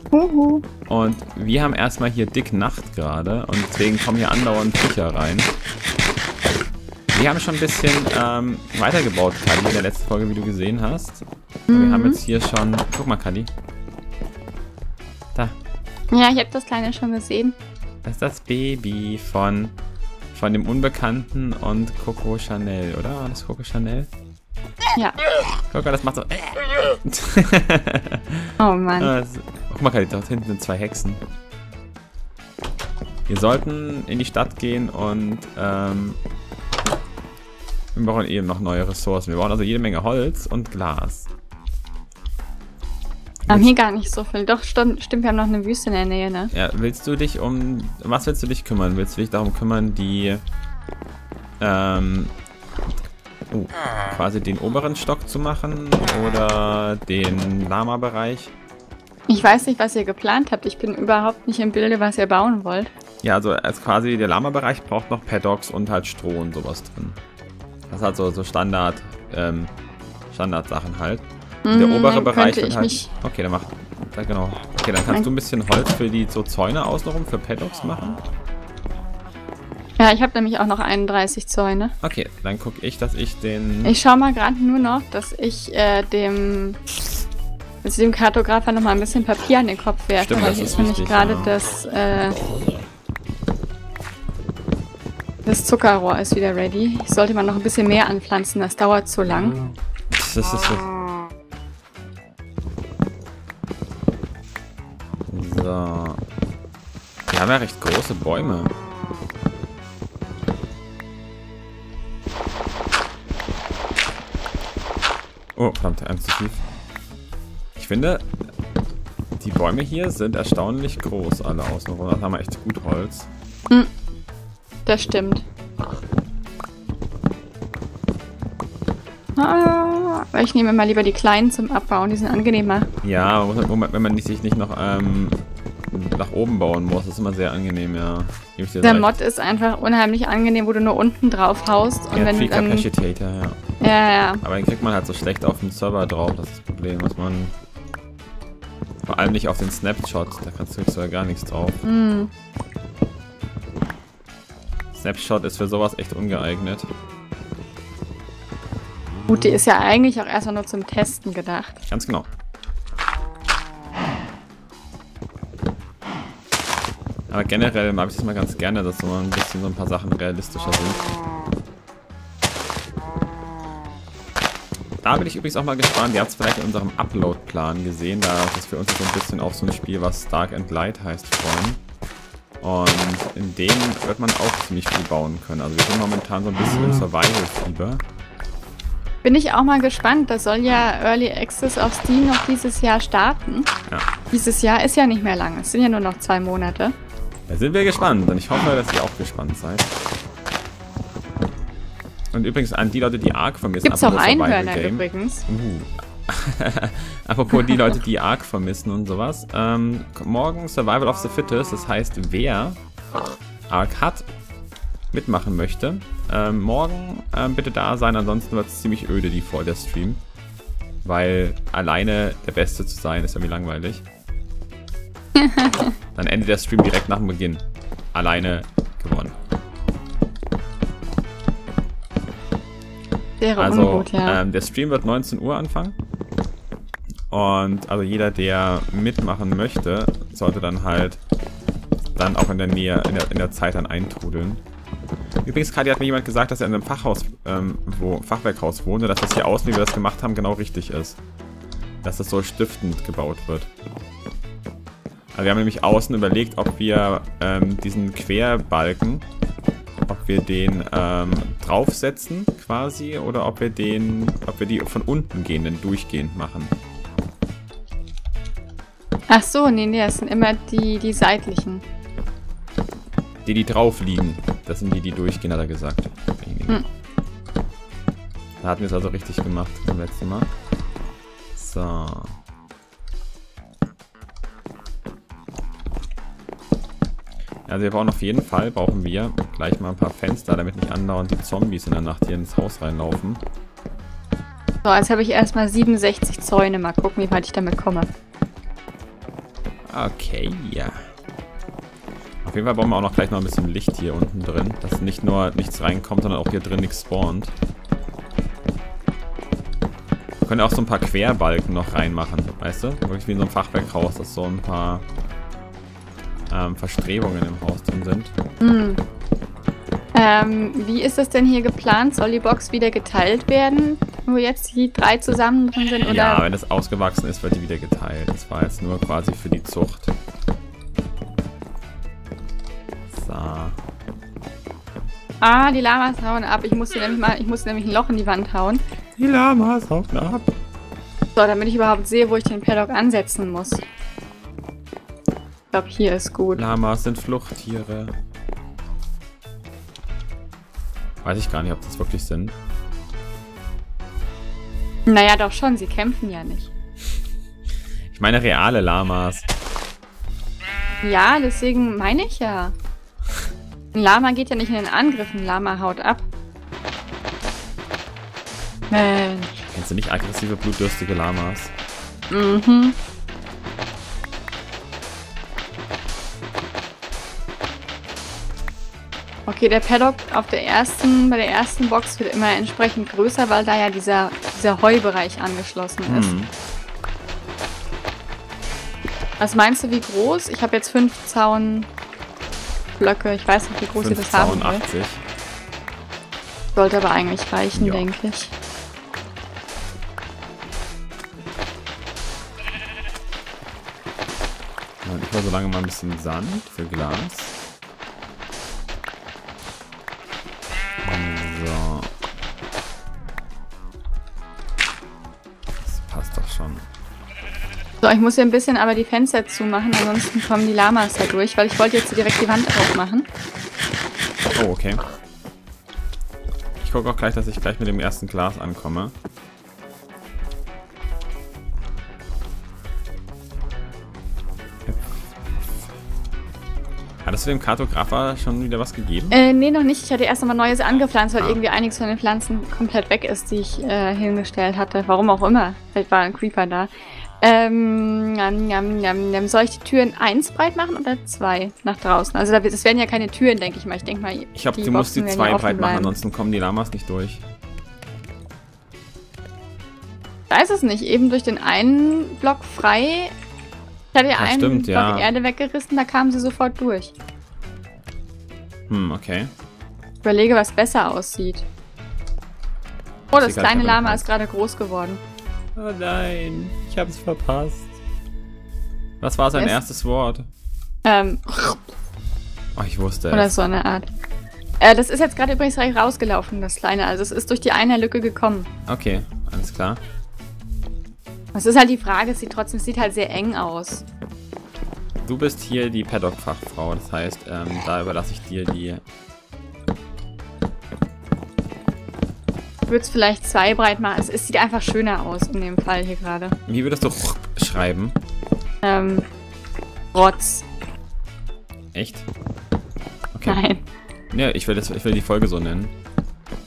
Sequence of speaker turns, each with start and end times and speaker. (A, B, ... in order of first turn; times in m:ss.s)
0:00.1-0:00.7 A
0:00.9-0:05.5 B
0:07.1-0:13.5 B
0:11.7-0:12.2 A
0:16.1-0:17.6 A
0:18.0-0:19.8 B
0:20.3-0:24.1 B
0:25.7-0:31.2 B
0:28.6-0:29.1 A
0:33.3-0:36.2 B
0:38.0-0:41.3 B
0:43.5-0:46.5 A
0:46.5-0:50.4 B
0:51.6-0:52.3 B
0:53.5-0:58.5 B
0:59.3-1:02.9 A
1:03.2-1:07.2 B
1:07.9-1:09.7 B
1:10.3-1:18.2 B
1:11.6-1:13.1 A
1:20.0-1:21.9 A
1:22.0-1:24.0 B
1:23.8-1:26.8 A
1:27.8-1:32.4 A
1:30.2-1:31.5 B
1:35.5-1:39.6 A
1:40.1-1:40.9 B
1:45.3-1:46.2 B
1:47.3-1:48.7 B
1:55.6-1:56.6 B
1:57.8-1:58.3 B
1:59.4-2:03.3 B
2:04.9-2:05.4 A
2:09.4-2:12.9 A
2:13.0-2:19.1 B
2:18.8-2:22.9 A
2:22.1-2:23.6 B
2:23.8-2:24.4 A
2:24.4-2:27.6 B
2:29.0-2:31.8 B
2:31.8-2:32.3 A
2:34.9-2:36.9 B
2:39.3-2:41.8 A
2:41.9-2:42.3 B
2:47.3-2:51.1 B
2:55.0-3:01.8 B
3:02.6-3:08.0 B
3:09.2-3:13.7 A
3:14.3-3:17.0 A
3:17.5-3:19.9 B
3:22.3-3:32.8 B
3:23.8-3:25.4 A
3:33.7-3:34.3 B
3:35.1-3:40.2 B
3:41.0-3:44.0 B
3:45.4-3:45.9 A
3:46.2-3:49.4 B
3:53.4-3:54.4 A
3:53.6-3:56.0 B
3:57.3-4:01.2 B
4:02.2-4:04.6 B
4:05.4-4:11.2 B
4:12.0-4:13.7 B
4:15.3-4:19.3 B
4:20.1-4:26.7 B
4:29.3-4:31.8 A
4:33.4-4:36.8 B
4:38.6-4:40.5 B
4:41.6-4:42.4 B
4:47.7-4:53.4 B
4:54.8-4:58.1 A
4:59.9-5:01.0 B
5:02.4-5:07.6 B
5:10.4-5:15.0 B
5:16.5-5:18.3 B
5:18.6-5:19.0 A
5:20.1-5:26.4 A
5:26.0-5:30.2 B
5:33.1-5:33.8 B
5:35.4-5:38.8 A
5:39.2-5:40.6 B
5:41.4-5:43.8 A
5:45.7-5:46.6 A
5:46.5-5:48.2 B
5:51.2-5:52.6 B
5:55.1-5:56.7 A
5:58.1-5:59.5 B
6:01.0-6:02.7 A
6:03.9-6:06.3 A
6:08.9-6:09.6 A
6:09.7-6:11.7 B
6:12.3-6:13.0 A
6:19.5-6:26.3 A
6:26.1-6:26.5 B
6:29.4-6:31.9 A
6:33.0-6:34.8 A
6:34.0-6:35.2 B
6:36.8-6:38.5 A
6:37.8-6:38.1 B
6:45.0-6:47.6 B
6:51.0-6:52.1 B
6:55.8-6:56.9 B
6:58.0-7:03.3 A
7:04.6-7:05.0 B
7:06.8-7:09.1 B
7:17.2-7:19.4 B
7:19.3-7:26.9 A
7:27.4-7:36.2 A
7:34.6-7:37.4 B
7:40.5-7:43.3 A
7:44.1-7:47.1 A
7:44.4-7:45.3 B
7:48.9-7:49.5 B
7:50.2-7:51.7 A
7:53.3-7:54.3 B
7:53.3-7:55.2 A
7:55.8-7:58.0 B
7:59.2-8:00.5 B
7:59.5-7:59.8 A
8:01.0-8:01.8 A
8:02.8-8:03.5 B
8:03.3-8:04.1 A
8:04.8-8:08.7 A
8:08.9-8:10.0 B
8:11.5-8:14.0 A
8:15.2-8:19.0 B
8:22.9-8:26.6 A
8:26.7-8:28.2 B
8:28.8-8:29.3 A
8:30.1-8:30.7 A
8:31.9-8:32.3 B
8:33.3-8:33.6 B
8:33.5-8:33.8 A
8:34.3-8:35.9 B